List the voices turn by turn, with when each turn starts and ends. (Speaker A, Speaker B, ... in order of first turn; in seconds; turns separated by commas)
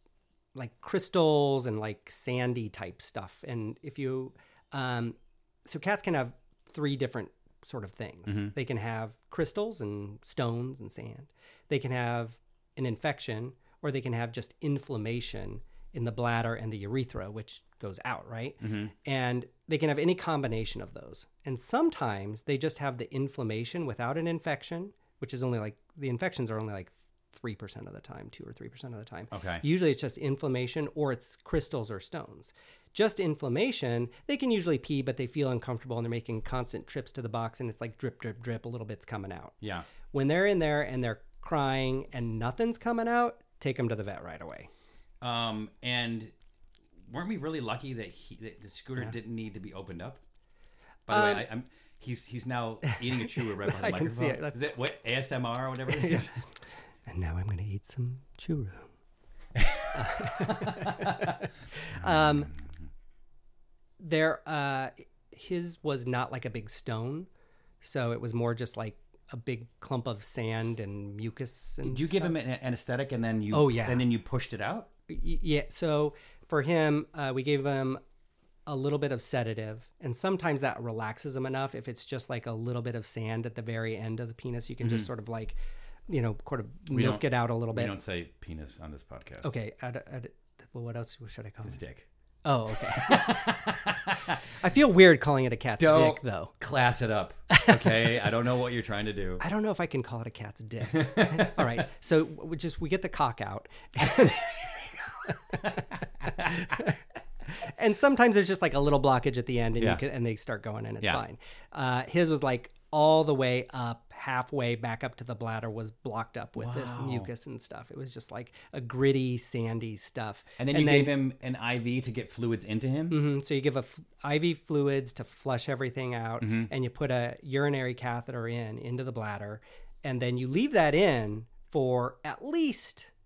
Speaker A: 0.6-39.6, Speaker B: 8.3-8.5, Speaker B: 18.6-18.9, Speaker B: 29.3-29.6, Speaker B: 39.6-39.9, Speaker A: 40.1-44.7, Speaker B: 45.2-46.3, Speaker B: 47.1-50.2, Speaker B: 51.1-56.4, Speaker A: 51.1-51.5, Speaker A: 53.4-54.6, Speaker A: 55.9-56.3, Speaker A: 57.1-58.9, Speaker B: 59.6-62.7, Speaker A: 59.9-62.5, Speaker A: 64.0-67.3, Speaker A: 67.8-72.3, Speaker B: 71.8-74.9, Speaker A: 73.5-74.0, Speaker A: 75.1-78.0, Speaker A: 78.7-88.0, Speaker B: 84.8-85.1, Speaker B: 86.9-89.5, Speaker A: 89.4-91.8, Speaker B: 91.7-92.1, Speaker A: 92.5-93.6, Speaker B: 92.9-94.4, Speaker A: 94.5-96.5, Speaker B: 95.8-99.4, Speaker A: 97.5-98.2, Speaker A: 99.4-104.7, Speaker B: 100.9-101.8, Speaker A: 105.3-105.8, Speaker B: 105.6-106.7, Speaker A: 106.6-106.9, Speaker A: 107.5-121.1, Speaker B: 116.6-117.3, Speaker B: 120.6-123.2, Speaker A: 123.1-133.1, Speaker B: 126.4-126.7